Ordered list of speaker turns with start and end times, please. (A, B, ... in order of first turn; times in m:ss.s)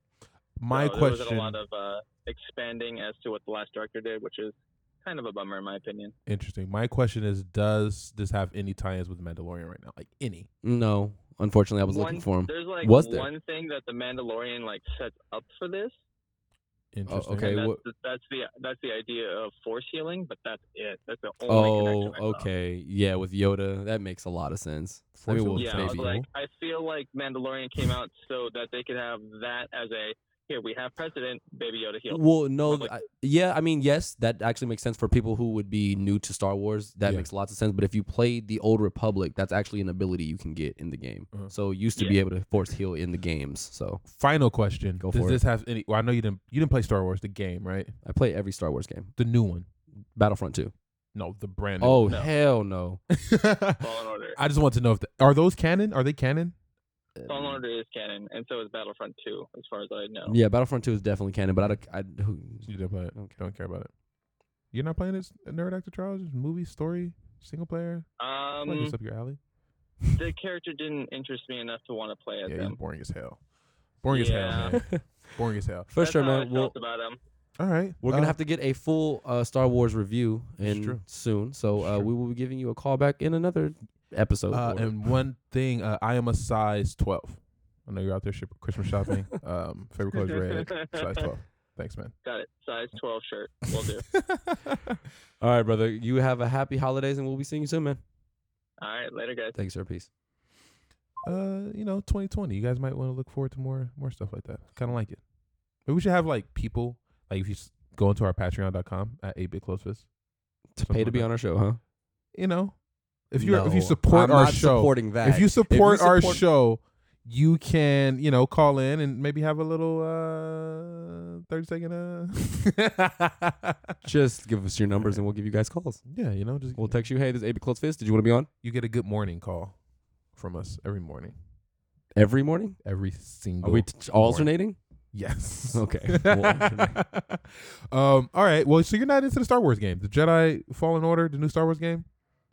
0:00.6-0:01.6 A
0:00.7-0:06.1 B
0:06.3-0:10.5 A
0:10.6-0:13.3 C
0:11.9-0:16.0 B
0:16.9-0:17.5 A
0:17.1-0:17.8 C
0:17.4-0:22.5 B
0:21.5-0:26.1 C
0:25.2-0:26.3 A
0:25.6-0:32.9 B
0:32.1-0:44.0 C
0:44.1-0:47.9 A
0:45.0-0:45.4 C
0:48.0-0:49.1 C
0:49.2-0:49.7 A
0:50.2-0:50.7 C
0:51.2-0:52.2 A
0:51.8-0:53.0 C
0:53.1-0:56.5 A
0:53.8-0:54.4 B
0:57.2-0:57.6 C
0:57.3-1:00.4 B
1:00.3-1:03.4 C
1:02.6-1:03.9 A
1:04.7-1:08.1 A
1:08.2-1:09.0 B
1:08.6-1:09.4 A
1:10.1-1:12.8 B
1:12.5-1:13.4 A
1:14.0-1:15.9 A
1:14.1-1:14.8 B
1:14.7-1:15.0 C
1:15.9-1:16.7 C
1:16.0-1:17.2 B
1:17.6-1:18.4 A
1:18.0-1:24.9 C
1:20.6-1:21.0 A
1:21.8-1:22.1 A
1:24.5-1:32.1 A
1:30.1-1:31.2 B
1:32.2-1:34.1 B
1:34.1-1:35.0 A
1:35.4-1:38.0 C
1:38.8-1:39.6 B
1:39.6-1:40.1 C
1:41.2-1:45.2 A
1:45.9-1:50.1 A
1:50.8-1:51.8 C
1:50.8-1:51.3 A
1:52.4-1:52.8 A
1:53.3-2:04.0 A
1:53.4-1:56.4 C
2:04.0-2:06.0 C
2:06.1-2:07.0 A
2:06.8-2:08.5 C
2:08.6-2:09.8 A
2:10.4-2:11.4 A
2:12.2-2:12.8 C
2:12.8-2:14.5 A
2:13.6-2:14.8 C
2:15.1-2:22.1 A
2:15.7-2:17.0 C